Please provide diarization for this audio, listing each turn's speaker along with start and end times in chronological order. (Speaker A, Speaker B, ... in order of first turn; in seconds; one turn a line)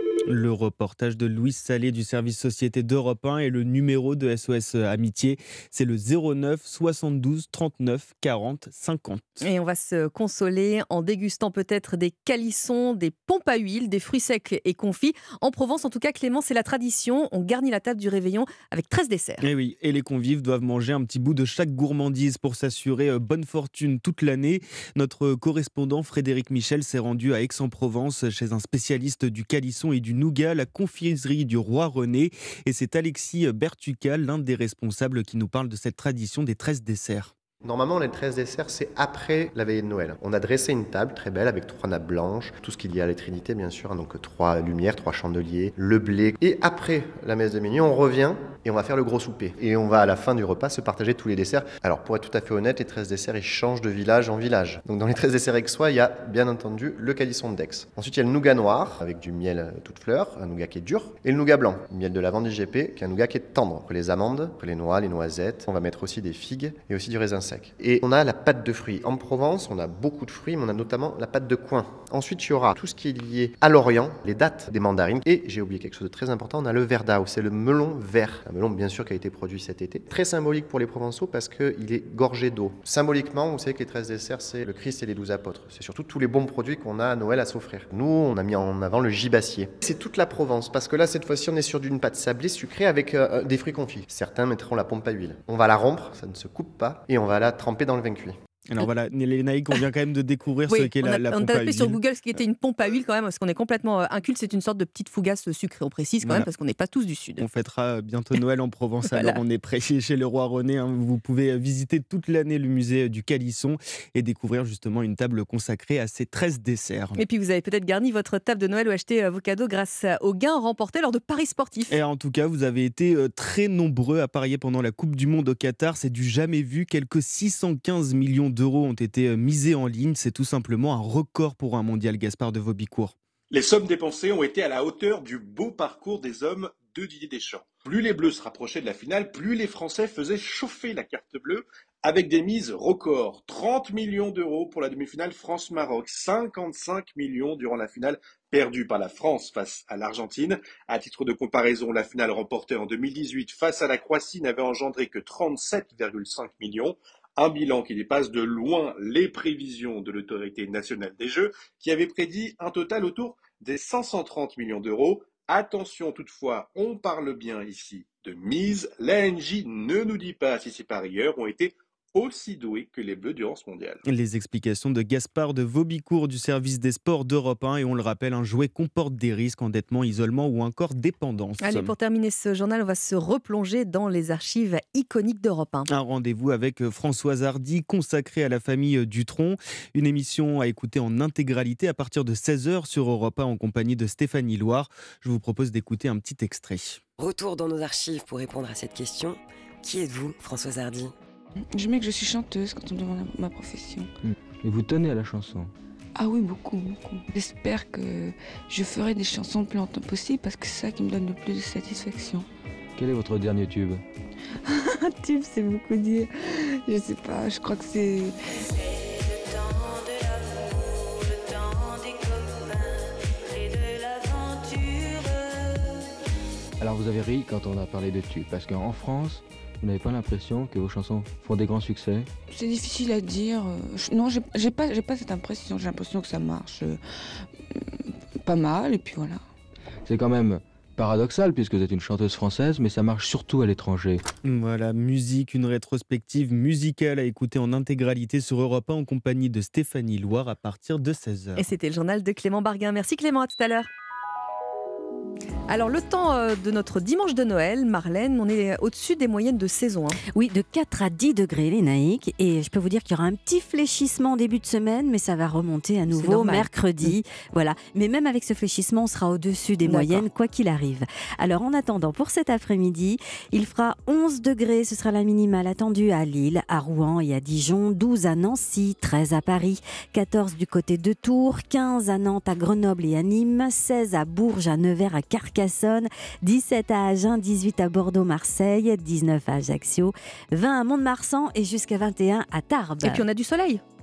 Speaker A: 0.3-9.4
Speaker B: 9.4-19.4
Speaker A: 19.4-37.3
Speaker C: 37.6-98.3
Speaker A: 98.7-102.4
Speaker B: 100.7-107.4
Speaker A: 106.2-106.5
Speaker A: 107.4-117.2
Speaker B: 109.1-109.4
Speaker B: 117.2-121.9
Speaker A: 121.9-133.1
Speaker D: 133.5-174.0
Speaker A: 174.1-181.9
Speaker B: 181.6-185.9
Speaker A: 185.9-197.0
Speaker E: 197.2-201.1
Speaker F: 201.9-203.8
Speaker G: 204.6-205.7
Speaker F: 207.4-208.2
Speaker F: 208.7-212.3
Speaker G: 213.0-214.0
Speaker F: 216.9-218.2
Speaker G: 226.8-232.3
Speaker F: 232.6-236.8
Speaker F: 238.5-239.3
Speaker G: 240.1-244.2
Speaker A: 244.4-251.7
Speaker B: 251.6-253.9
Speaker B: 255.7-260.2
Speaker H: 260.3-293.2
Speaker B: 266.1-267.1
Speaker B: 269.8-270.2
Speaker B: 293.0-293.8